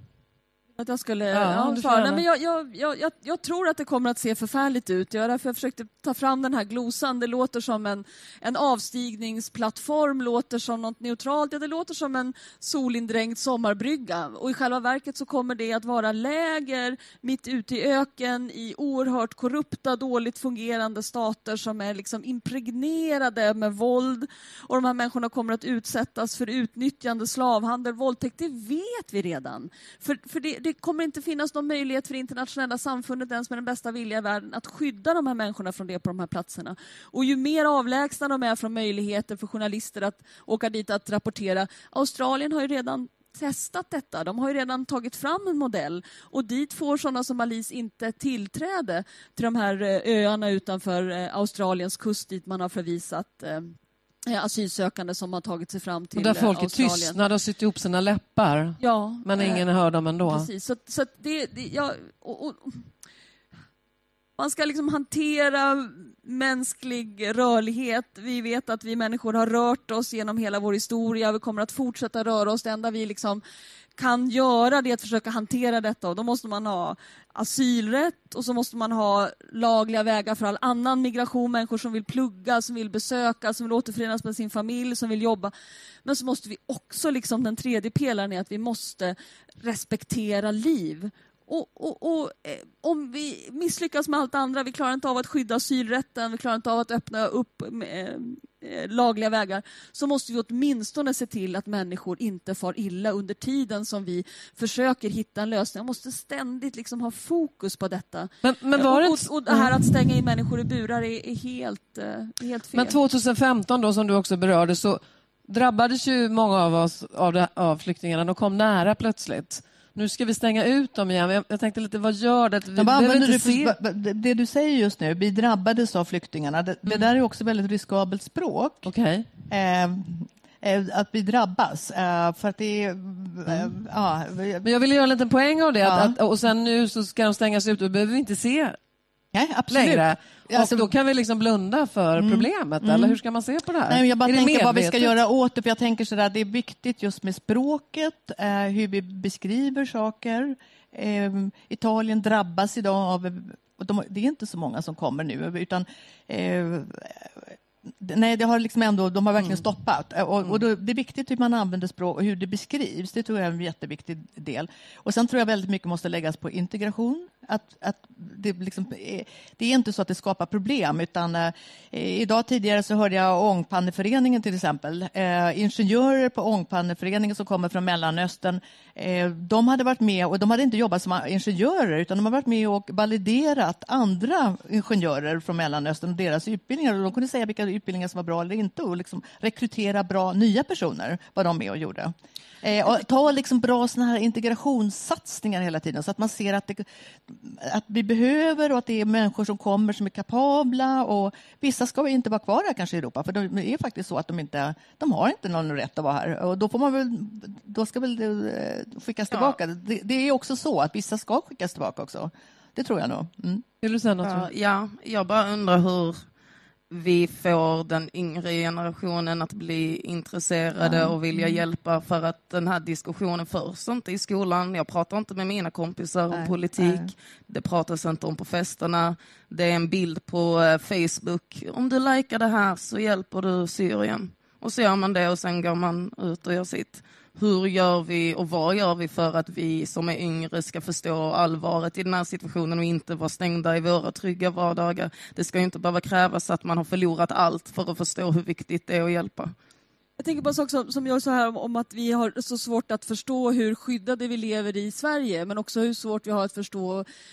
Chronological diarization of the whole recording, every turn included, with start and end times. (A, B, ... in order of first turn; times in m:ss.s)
0:00.8-0:53.8 A
0:01.3-0:02.2 B
0:54.3-0:57.2 A
0:56.2-1:00.5 B
0:58.8-0:59.6 A
1:00.2-1:02.9 A
1:04.4-1:13.4 A
1:14.0-1:25.5 A
1:26.0-1:53.0 A
1:48.4-1:49.9 B
1:52.7-2:03.8 B
2:02.8-2:08.9 C
2:08.8-2:09.3 B
2:09.5-2:14.7 C
2:14.6-2:18.8 B
2:15.8-2:16.2 C
2:19.3-2:20.9 C
2:19.7-2:25.1 B
2:22.2-2:23.2 C
2:23.9-3:33.6 C
3:29.3-3:29.6 D
3:33.8-3:34.5 B
3:34.2-3:36.2 D
3:36.9-4:09.5 D
3:40.8-3:41.6 C
3:46.3-3:47.1 C
4:10.2-4:17.0 A